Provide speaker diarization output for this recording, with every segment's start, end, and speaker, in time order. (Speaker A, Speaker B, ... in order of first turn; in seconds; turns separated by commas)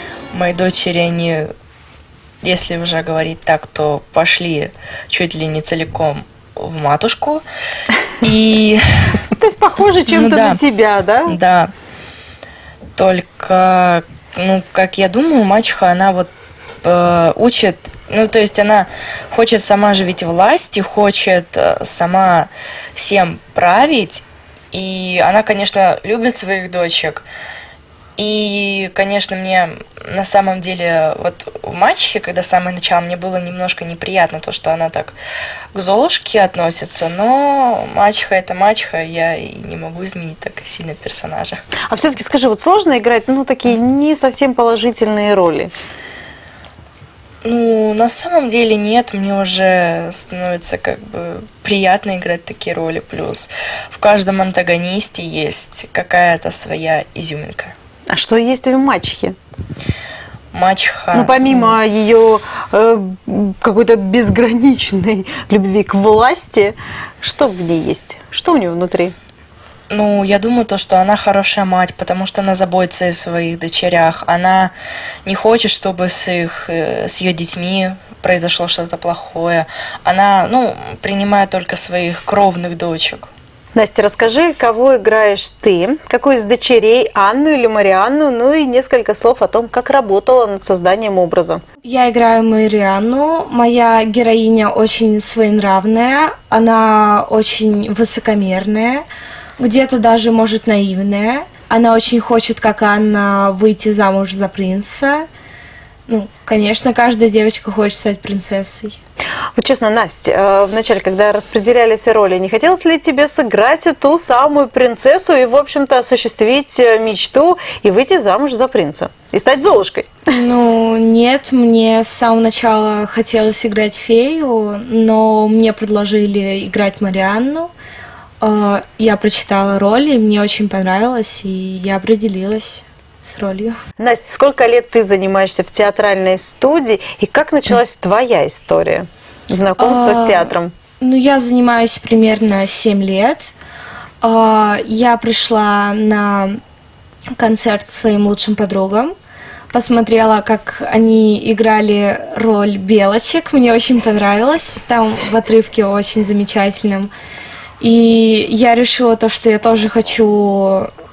Speaker A: 0.3-1.5, Speaker A: 2.4-7.5, Speaker A: 8.2-9.2, Speaker B: 9.3-11.3, Speaker A: 10.1-10.6, Speaker A: 11.3-11.7, Speaker A: 13.0-16.3, Speaker A: 16.8-27.2, Speaker A: 28.2-35.1, Speaker A: 35.7-41.6, Speaker B: 41.9-45.7, Speaker A: 47.4-57.7, Speaker B: 58.1-59.4, Speaker A: 60.5-61.8, Speaker B: 61.1-69.2, Speaker A: 69.9-74.7, Speaker A: 75.2-83.3, Speaker B: 83.8-91.6, Speaker C: 91.8-99.1, Speaker C: 99.6-105.3, Speaker C: 106.1-109.0, Speaker B: 109.6-120.2, Speaker C: 120.3-127.7, Speaker C: 128.4-133.8, Speaker B: 134.0-140.7, Speaker C: 139.8-143.5, Speaker C: 144.2-146.6, Speaker C: 147.3-149.2, Speaker C: 149.7-157.1, Speaker C: 157.8-160.9